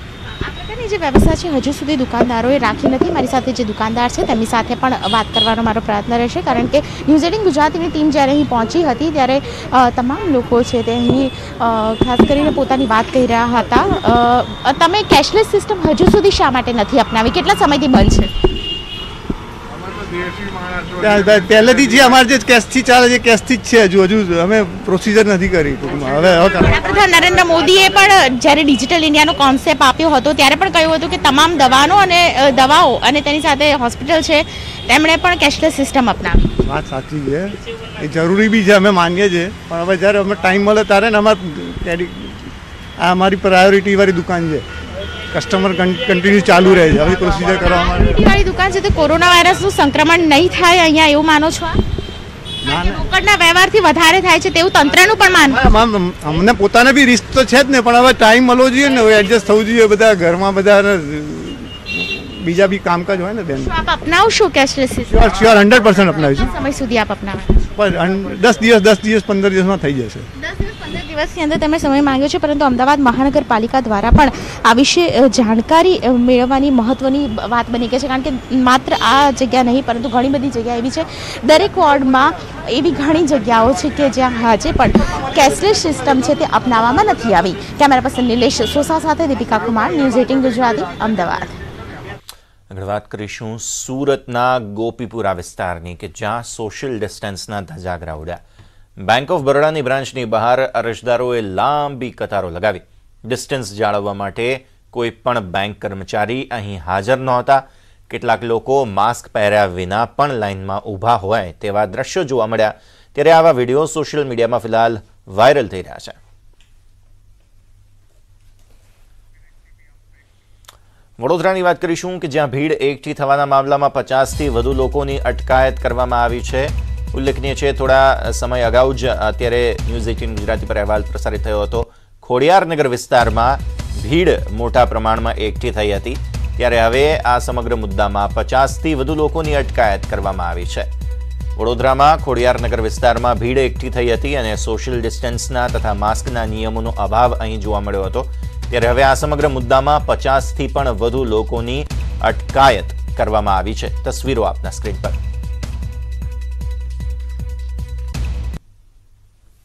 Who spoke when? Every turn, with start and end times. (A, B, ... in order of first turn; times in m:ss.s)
0:00.4-0:18.3 A
0:21.0-0:26.8 B
0:26.5-0:36.6 A
0:36.6-0:44.6 B
0:45.3-0:48.2 B
0:47.7-0:51.8 A
0:52.6-0:53.1 B
0:52.7-0:55.7 A
0:55.5-1:03.8 B
1:03.6-1:07.7 A
1:05.1-1:06.5 B
1:07.8-1:10.3 B
1:10.4-1:31.6 A
1:32.7-1:38.4 C
1:39.0-1:56.2 C
2:01.2-2:20.9 C
2:21.6-2:35.2 C